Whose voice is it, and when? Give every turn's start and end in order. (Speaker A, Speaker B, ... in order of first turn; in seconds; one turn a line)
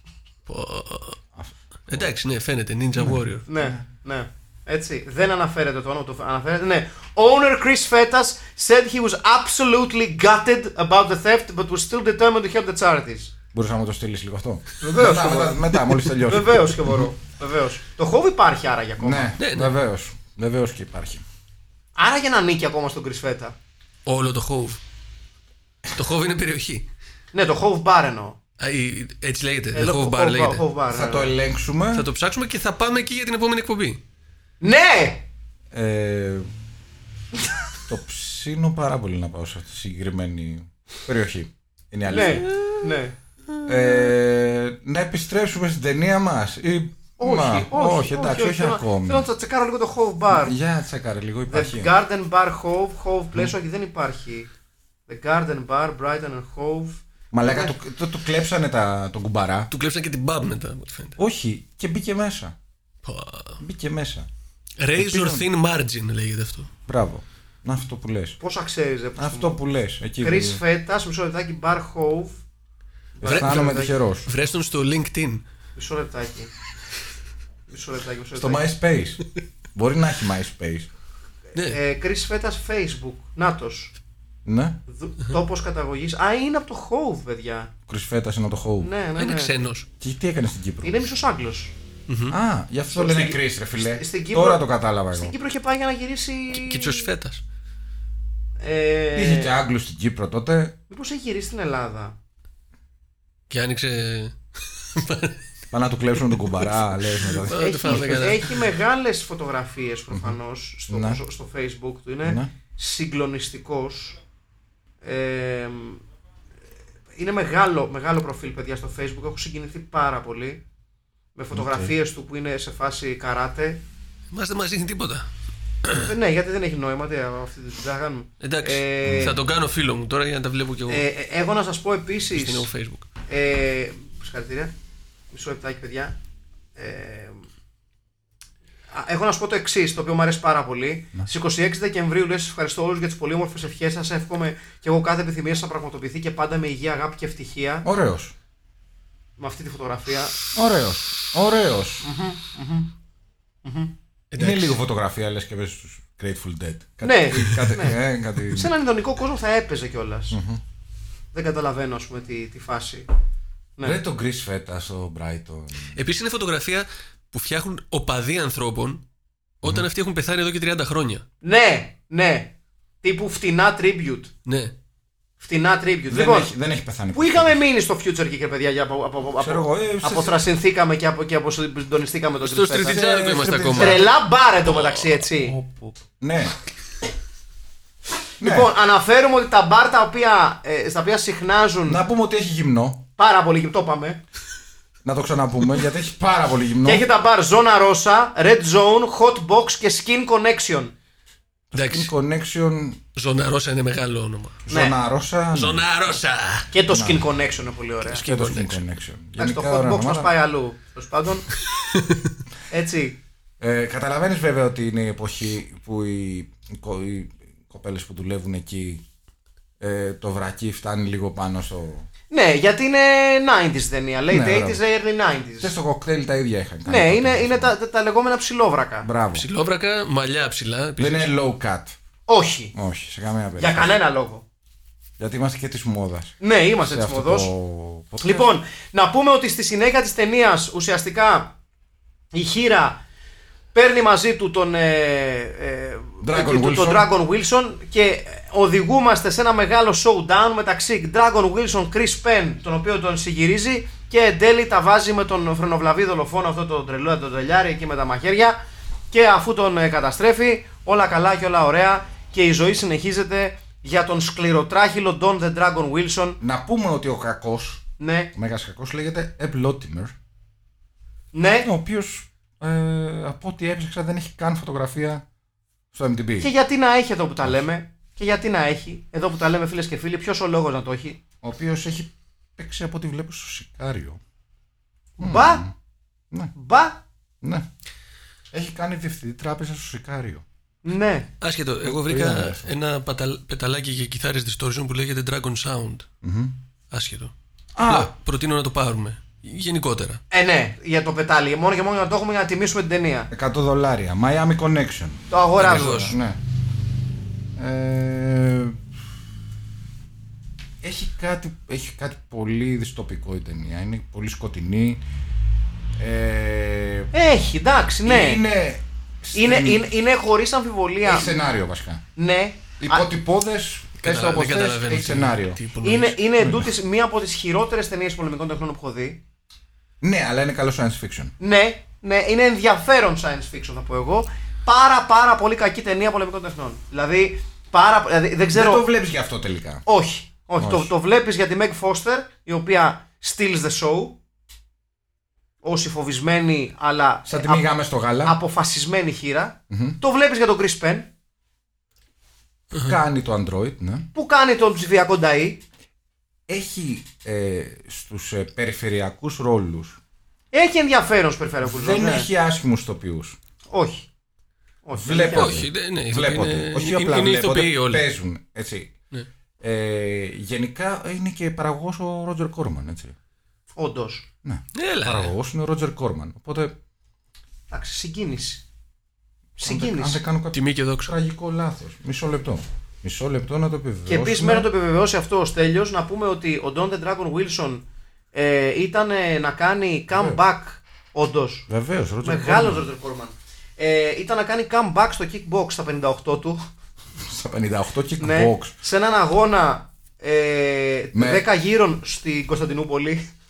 Speaker A: 0.5-1.2
Speaker B: 1.3-2.1
Speaker A: 1.9-3.4
Speaker B: 3.0-3.8
Speaker C: 3.5-13.3
Speaker B: 13.5-17.0
Speaker C: 14.8-15.7
Speaker C: 16.2-19.3
Speaker B: 19.0-21.2
Speaker A: 19.4-19.7
Speaker C: 21.9-23.5
Speaker A: 24.1-24.8
Speaker A: 25.9-26.9
Speaker C: 27.3-28.4
Speaker A: 28.6-30.6
Speaker C: 29.7-31.3
Speaker B: 30.9-32.1
Speaker A: 31.9-34.0
Speaker C: 34.6-35.2
Speaker B: 35.7-36.5
Speaker B: 37.9-42.5
Speaker C: 42.1-43.1
Speaker A: 42.1-42.8
Speaker B: 43.6-49.2
Speaker C: 47.2-50.6
Speaker B: 50.3-51.9
Speaker C: 51.5-54.5
Speaker C: 55.1-57.7
Speaker B: 57.3-59.7
Speaker A: 59.7-61.2
Speaker B: 61.2-62.5
Speaker A: 63.0-63.6
Speaker B: 63.6-64.3
Speaker A: 64.8-66.7
Speaker B: 65.0-65.4
Speaker B: 66.9-68.4
Speaker C: 68.4-69.5
Speaker B: 69.2-70.6
Speaker C: 70.2-72.4
Speaker C: 73.2-73.9
Speaker B: 73.2-74.3
Speaker A: 73.2-75.4
Speaker C: 75.8-76.5
Speaker C: 77.7-78.7
Speaker B: 78.3-79.2
Speaker B: 79.7-80.9
Speaker C: 81.5-83.9
Speaker B: 84.4-84.8
Speaker C: 84.9-87.7
Speaker B: 87.9-88.9
Speaker C: 88.8-89.5
Speaker A: 89.2-89.9
Speaker B: 90.0-91.0
Speaker C: 90.8-91.7
Speaker A: 92.1-92.3
Speaker B: 92.3-95.3
Speaker C: 92.9-97.1
Speaker A: 96.5-97.4
Speaker C: 98.6-99.5
Speaker B: 99.1-100.7
Speaker C: 100.9-102.1
Speaker A: 103.5-105.4
Speaker B: 105.7-108.2
Speaker A: 106.3-106.7
Speaker A: 107.3-108.7
Speaker C: 107.5-114.2
Speaker B: 110.9-111.2
Speaker B: 112.2-112.5
Speaker C: 115.0-116.0
Speaker C: 117.1-120.6
Speaker C: 121.3-123.8
Speaker B: 121.5-121.9
Speaker A: 124.3-125.3
Speaker A: 125.8-126.1
Speaker C: 125.9-129.4
Speaker A: 128.4-131.0
Speaker B: 129.0-129.3
Speaker C: 130.9-132.7
Speaker A: 132.3-133.1
Speaker C: 133.3-134.7
Speaker C: 135.3-136.1
Speaker C: 136.8-137.4
Speaker C: 138.9-147.8
Speaker B: 147.8-148.3
Speaker C: 149.4-150.3
Speaker B: 150.5-152.0
Speaker C: 152.0-152.9
Speaker C: 153.6-153.9
Speaker A: 154.3-154.8
Speaker B: 154.4-158.7
Speaker C: 157.0-157.9
Speaker C: 158.5-160.4
Speaker B: 160.3-160.6
Speaker C: 161.3-163.1
Speaker B: 163.8-166.0
Speaker A: 165.9-169.0
Speaker A: 169.6-171.2
Speaker C: 171.4-174.3
Speaker A: 174.4-174.7
Speaker C: 175.4-176.5
Speaker B: 176.1-177.6
Speaker C: 177.1-183.0
Speaker B: 179.4-180.4
Speaker A: 182.4-184.1
Speaker B: 182.8-184.1
Speaker C: 183.7-185.6
Speaker A: 184.6-185.2
Speaker B: 185.3-186.5
Speaker B: 188.4-188.7
Speaker C: 188.4-192.0
Speaker B: 191.8-193.0
Speaker C: 193.2-194.2
Speaker B: 195.0-197.0
Speaker C: 196.8-200.9
Speaker B: 201.7-203.0
Speaker A: 201.7-202.1
Speaker A: 203.2-204.7
Speaker B: 204.7-205.9
Speaker C: 204.7-204.9
Speaker A: 205.5-206.7
Speaker C: 206.7-208.2
Speaker B: 206.9-207.2
Speaker A: 208.1-208.8
Speaker B: 208.2-210.3
Speaker C: 209.4-211.5
Speaker C: 212.7-213.2
Speaker B: 213.6-219.0
Speaker B: 219.8-222.1
Speaker C: 222.3-225.7
Speaker B: 224.3-224.8
Speaker B: 225.6-227.7
Speaker C: 226.8-229.1
Speaker B: 229.0-229.4
Speaker A: 229.3-231.3
Speaker B: 231.0-231.9
Speaker C: 232.3-232.7
Speaker B: 232.7-233.9
Speaker C: 233.6-234.4
Speaker B: 235.2-238.5
Speaker C: 236.4-237.5
Speaker C: 238.2-241.5
Speaker C: 242.3-243.0
Speaker C: 243.7-258.6
Speaker B: 246.2-247.1
Speaker C: 259.1-266.4
Speaker B: 266.4-267.8
Speaker C: 268.0-268.3
Speaker B: 268.3-270.1
Speaker C: 271.3-271.7
Speaker B: 271.6-275.2
Speaker B: 275.9-276.5
Speaker C: 276.4-281.2
Speaker B: 281.4-284.2
Speaker C: 285.2-285.6
Speaker B: 285.2-285.7
Speaker C: 286.5-287.0
Speaker B: 288.5-290.4
Speaker C: 290.8-291.3
Speaker A: 291.4-296.1
Speaker B: 291.8-292.7
Speaker B: 296.2-296.6
Speaker A: 296.9-300.2
Speaker B: 297.7-298.1
Speaker C: 300.3-303.3
Speaker B: 303.3-306.4
Speaker C: 305.3-306.1
Speaker A: 305.6-306.1
Speaker B: 307.6-308.8
Speaker B: 310.8-315.0
Speaker B: 316.0-317.1
Speaker C: 317.1-318.4
Speaker B: 318.0-319.8
Speaker C: 319.3-321.3
Speaker B: 321.0-322.0
Speaker C: 322.1-323.1
Speaker B: 322.8-325.6
Speaker A: 324.0-326.2
Speaker C: 325.8-329.2
Speaker B: 326.4-326.7
Speaker B: 330.0-331.3
Speaker C: 331.4-338.8
Speaker B: 338.5-339.8
Speaker C: 339.9-344.2
Speaker B: 340.6-340.9
Speaker C: 345.6-347.7
Speaker B: 347.3-348.4
Speaker C: 348.2-351.1
Speaker B: 349.7-350.0
Speaker B: 352.7-354.1
Speaker C: 354.1-355.6
Speaker B: 356.5-360.0
Speaker C: 360.5-362.3
Speaker B: 361.6-363.4
Speaker C: 363.7-364.1
Speaker C: 364.8-365.6
Speaker B: 364.9-368.9
Speaker A: 365.3-368.0
Speaker B: 369.6-373.1
Speaker C: 373.8-374.2
Speaker B: 374.4-376.7
Speaker A: 374.7-375.3
Speaker C: 377.7-378.6
Speaker C: 379.6-380.2
Speaker B: 379.6-384.7
Speaker A: 380.5-381.1
Speaker C: 384.1-391.7
Speaker B: 390.1-390.4
Speaker B: 391.7-392.8
Speaker C: 392.2-396.6
Speaker B: 397.2-398.7
Speaker C: 398.2-403.3
Speaker B: 401.1-401.4